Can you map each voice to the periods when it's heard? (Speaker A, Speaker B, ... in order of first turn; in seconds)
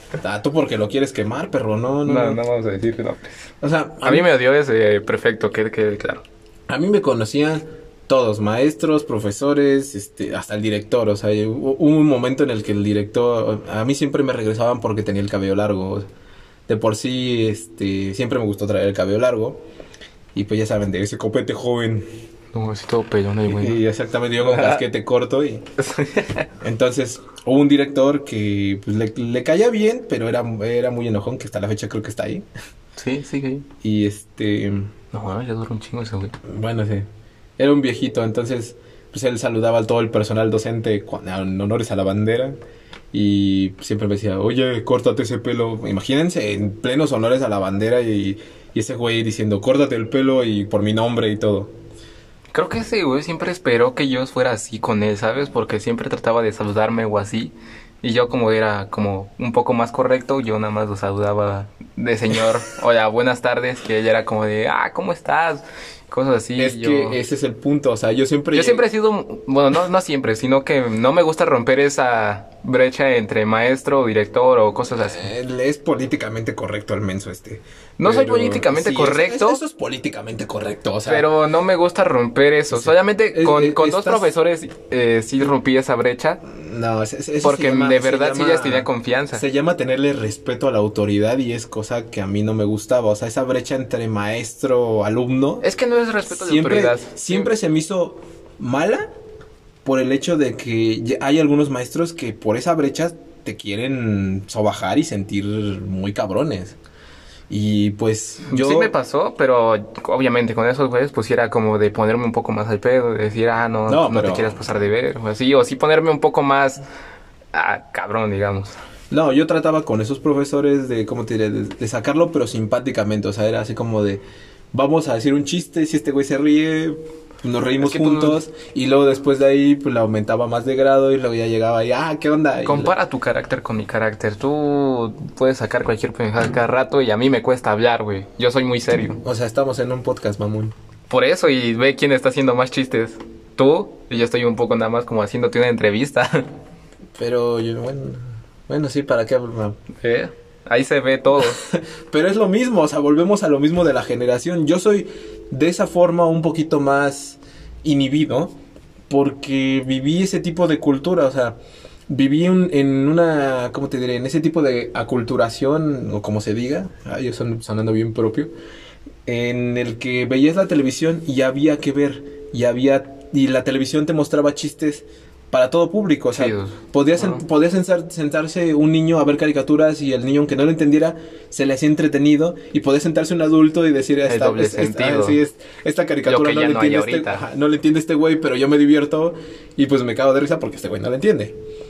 Speaker A: 0.2-2.4, 3.6-4.3, 6.7-16.1, 16.7-19.6, 20.3-22.1, 23.5-25.6, 26.6-32.4, 33.8-34.9, 36.4-37.1, 37.6-42.6, 43.1-51.7, 66.6-68.8, 75.0-81.3, 82.7-84.3, 86.4-95.7, 96.3-99.1, 99.8-106.8, 107.5-108.9, 113.9-114.6, 119.1-124.2, 124.7-132.9, 139.2-140.7, 147.2-149.8, 151.4-158.5, 159.1-161.6, 162.1-168.5, 169.2-191.5
Speaker B: 2.0-3.5, 4.0-6.2, 22.5-23.8, 24.4-24.8, 25.8-26.5, 33.0-33.7, 35.1-36.4, 52.5-67.2, 68.5-75.3, 78.0-79.6, 81.0-86.4, 87.4-89.4, 95.6-97.5, 108.4-116.8, 117.5-118.7, 127.8-128.4, 132.6-139.2, 141.1-146.5, 149.9-151.6, 176.3-177.4, 184.3-185.4, 186.2-187.4